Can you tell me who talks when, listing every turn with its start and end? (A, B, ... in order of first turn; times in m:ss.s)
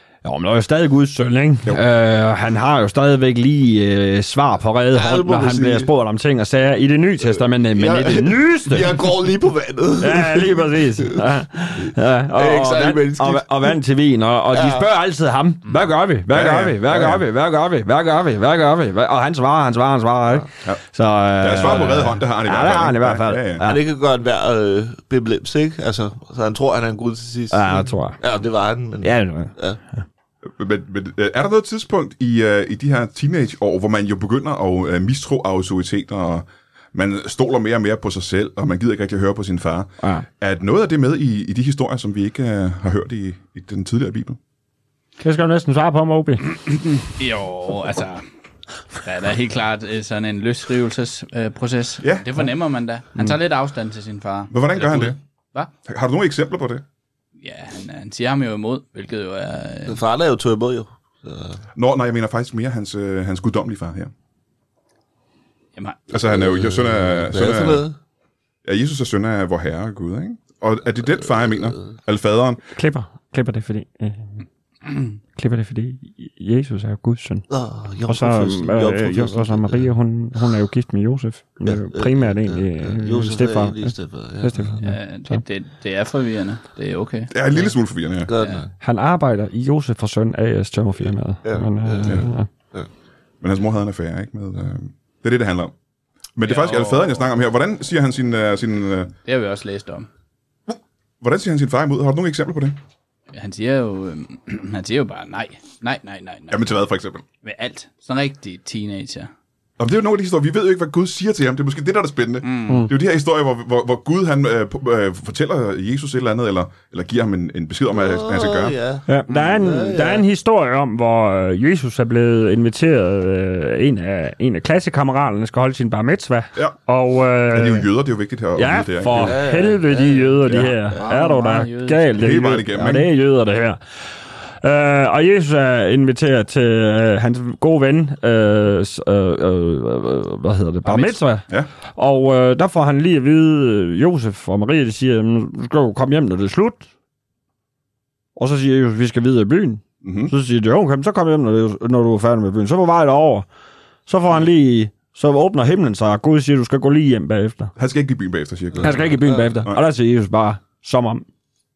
0:00.2-0:09.1 A
0:04.9-0:05.9 B
0:07.2-0:13.8 B
0:10.0-0:23.8 A
0:14.5-0:14.9 B
0:16.3-0:17.3 C
0:21.4-0:23.6 C
0:23.6-0:29.8 B
0:27.5-0:28.2 A
0:29.0-0:30.0 A
0:30.4-0:44.4 C
0:45.2-0:46.4 A
0:46.5-0:48.2 D
0:49.0-0:55.7 D
0:54.5-0:55.2 C
0:55.9-0:56.8 C
0:57.4-1:00.0 D
0:59.9-1:01.6 B
1:01.8-1:04.1 C
1:05.8-1:06.0 D
1:06.1-1:07.8 C
1:06.3-1:08.0 B
1:08.6-1:12.6 C
1:12.8-1:14.4 A
1:15.4-1:17.5 A
1:17.5-1:19.9 B
1:18.1-1:25.4 A
1:21.6-1:24.8 B
1:24.8-1:27.6 D
1:27.3-1:28.3 C
1:28.3-1:28.7 B
1:28.4-1:28.6 D
1:28.8-1:32.5 A
1:31.4-1:32.9 B
1:33.4-1:35.7 C
1:36.4-1:39.1 C
1:36.4-1:37.2 D
1:39.2-1:40.1 D
1:40.7-1:42.8 C
1:43.3-1:46.7 D
1:46.5-1:47.2 C
1:47.4-1:49.3 D
1:49.8-1:58.8 C
1:52.4-1:52.9 D
1:57.9-1:59.1 B
1:59.1-2:07.9 A
1:59.3-1:59.5 D
1:59.6-2:00.3 B
2:07.5-2:09.4 C
2:08.6-2:13.8 A
2:09.1-2:11.3 B
2:10.5-2:10.7 C
2:10.9-2:12.4 D
2:12.2-2:13.1 C
2:14.6-2:26.9 A
2:20.9-2:21.2 D
2:28.4-2:33.5 A
2:30.0-2:30.3 C
2:34.1-2:37.7 A
2:37.8-2:39.8 C
2:38.8-2:41.2 A
2:39.2-2:39.6 B